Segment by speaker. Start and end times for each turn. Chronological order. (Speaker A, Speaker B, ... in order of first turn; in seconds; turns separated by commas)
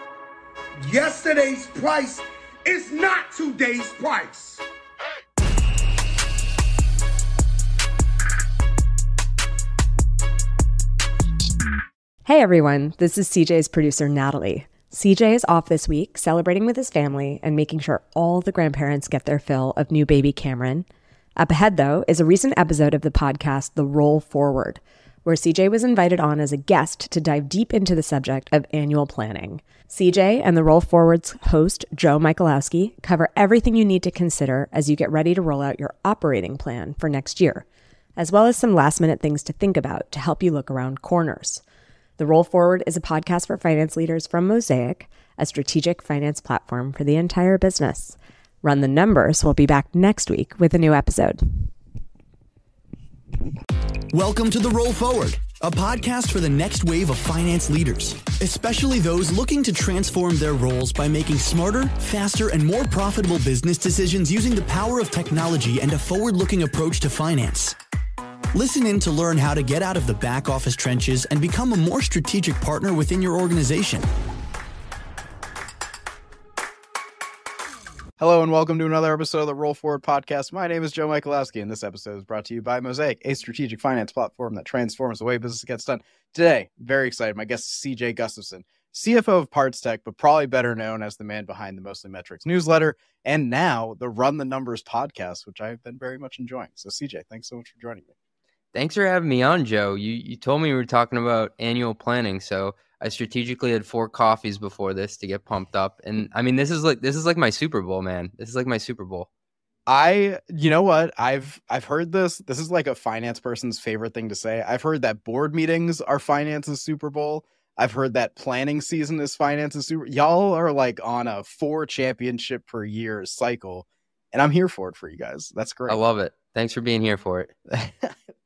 Speaker A: 0.8-4.6, Speaker B: 12.2-20.8, Speaker B: 21.4-37.6, Speaker B: 38.2-41.6, Speaker B: 42.2-51.7, Speaker C: 54.1-67.8, Speaker C: 68.5-74.1, Speaker D: 78.2-98.1, Speaker E: 98.7-109.3, Speaker D: 109.9-126.0, Speaker E: 125.9-127.5, Speaker D: 127.7-128.2